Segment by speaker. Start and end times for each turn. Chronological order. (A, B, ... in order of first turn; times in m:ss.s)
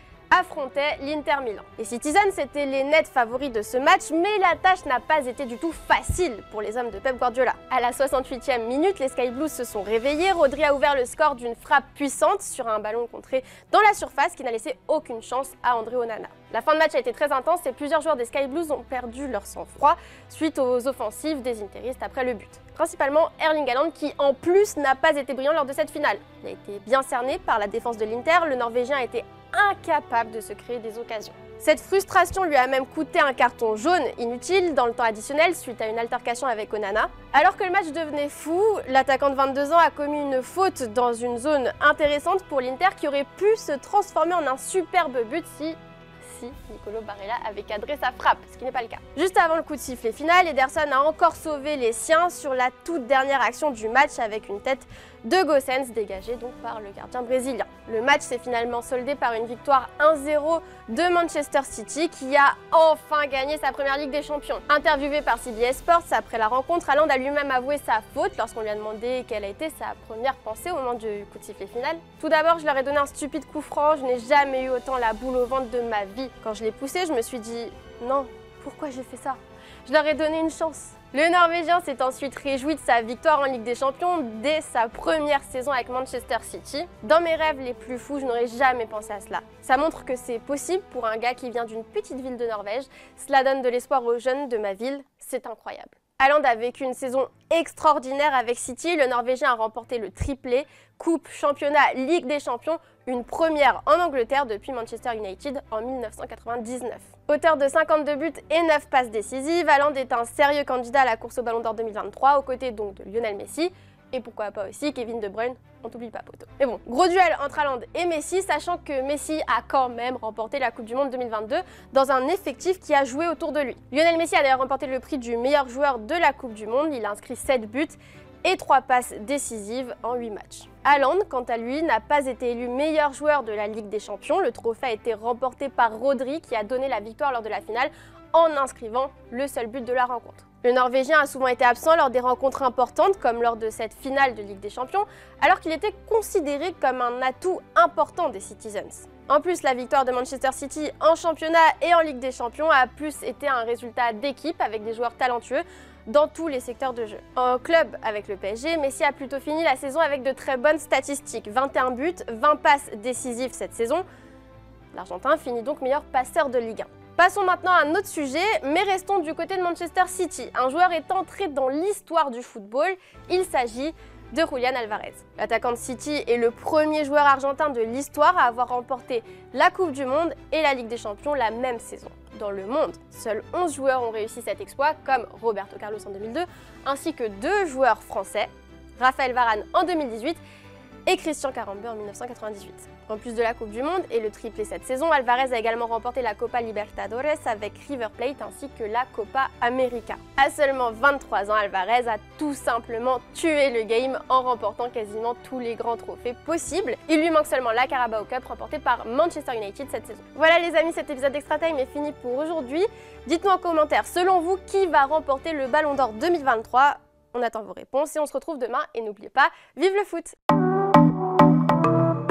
0:00.3-2:44.0 A
2:44.9-3:10.4 A
3:11.1-3:40.4 A